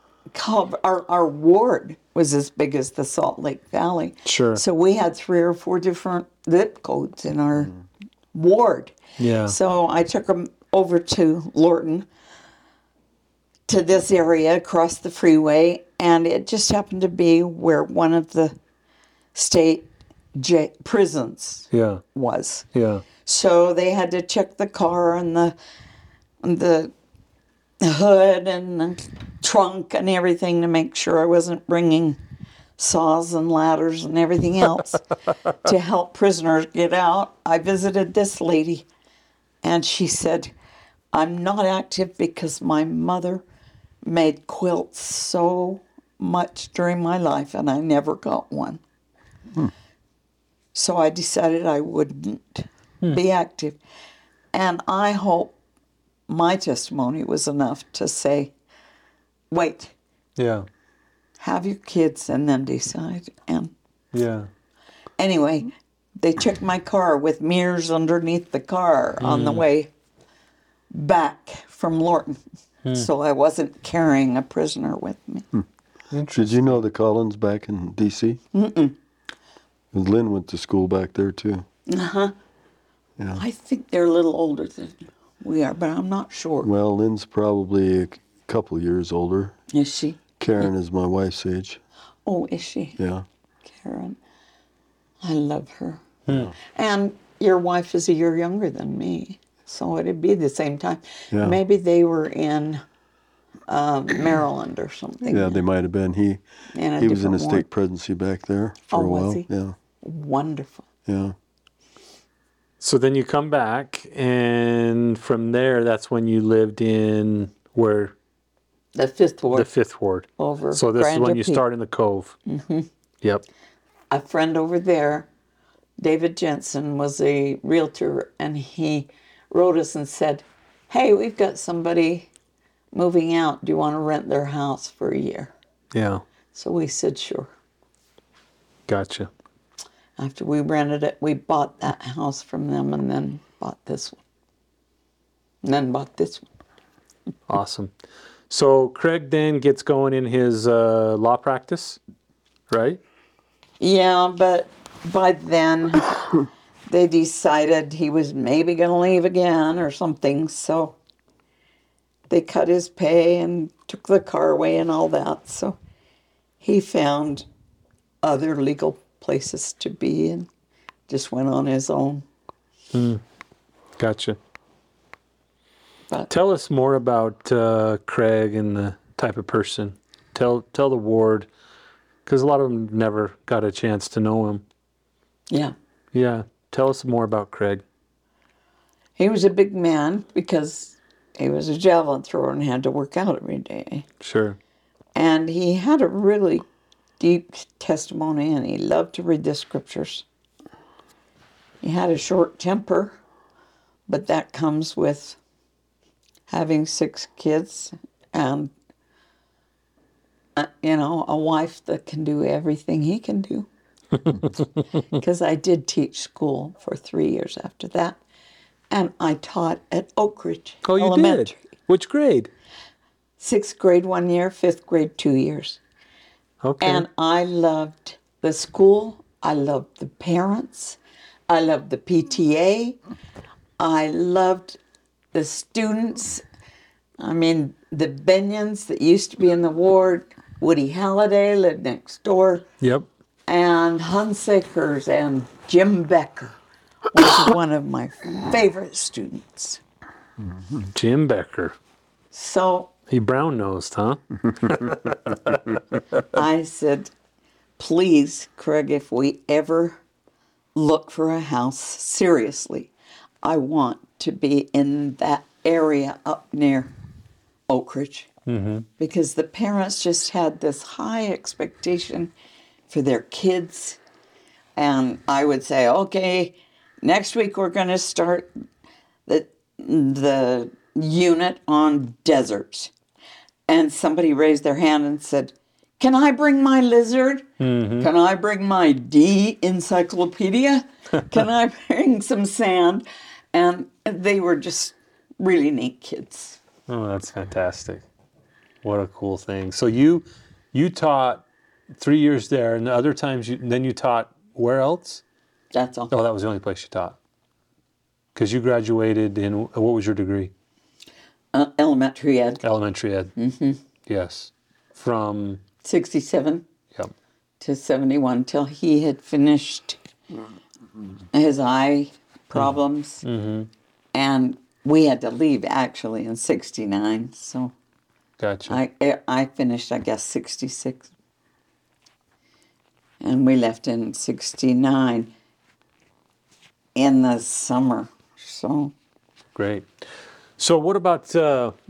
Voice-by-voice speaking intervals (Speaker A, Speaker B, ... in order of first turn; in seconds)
Speaker A: 0.3-7.7, 8.3-8.9, 9.5-12.1, 13.7-18.6, 19.3-22.7, 23.2-25.6, 26.4-26.9, 27.8-32.2, 32.8-35.0, 35.6-38.9, 39.6-40.5, 41.1-43.4, 44.0-48.8, 50.8-53.8, 54.5-55.6, 56.3-58.5, 59.5-59.9, 61.4-63.7, 65.2-69.9, 70.9-72.4, 72.9-75.5, 78.5-79.0, 81.9-82.3, 83.4-86.7, 89.7-90.2, 92.3-93.0, 93.6-94.2, 95.2-96.0, 96.7-102.8, 103.7-105.6, 106.7-107.7, 108.9-109.5, 110.0-110.8, 119.0-119.7, 120.4-121.6, 122.5-122.9, 124.1-125.3, 126.0-132.3, 132.9-135.5, 136.5-137.5, 140.2-144.2, 145.6-146.5, 153.8-156.3, 156.9-161.0, 162.3-165.8, 166.6-167.5, 168.2-170.5, 171.1-172.2, 189.2-194.1, 195.2-196.6, 197.2-200.2, 201.8-203.2, 204.1-205.4, 206.5-208.7, 210.6-213.7, 215.1-218.2, 218.9-221.6, 223.4-225.8, 226.8-233.0, 233.8-234.8, 235.3-236.4, 237.2-242.7, 243.5-246.6, 247.1-249.8, 252.3-252.9, 256.3-257.1, 257.8-260.0, 260.8-262.9, 263.4-266.9, 267.7-268.3, 269.0-272.3, 272.9-274.0, 274.8-278.5, 279.3-282.9, 283.7-287.5, 288.0-296.6, 305.7-306.1, 311.5-312.6, 313.4-313.8, 315.8-316.6, 317.6-320.0, 321.3-323.2, 324.1-327.7, 328.7-331.1, 333.2-335.3, 336.9-338.9
Speaker B: 4.3-4.6, 9.2-9.6, 21.7-22.0, 22.8-23.0, 60.4-60.7, 64.1-64.5, 69.2-69.7, 76.1-76.8, 96.3-96.5, 112.8-118.2, 119.5-122.4, 135.9-136.2, 138.9-139.3, 147.5-147.9, 148.5-152.0, 152.7-153.0, 172.9-173.2, 174.0-174.4, 176.3-181.5, 182.3-184.6, 186.1-187.8, 194.2-194.6, 220.8-222.5, 226.6-227.1, 242.8-243.1, 250.9-251.8, 253.1-256.0, 268.5-268.9, 287.6-288.1, 296.9-298.0, 298.8-301.4, 302.0-305.2, 306.1-307.2, 308.4-310.5, 312.6-313.3, 314.1-315.6, 322.6-323.7, 328.4-328.8, 339.6-340.1, 340.6-341.8
Speaker C: 76.3-78.4, 79.9-81.7, 86.6-89.6, 90.4-91.8, 93.0-93.2, 101.3-101.6, 105.3-106.4, 107.0-109.8, 111.1-111.3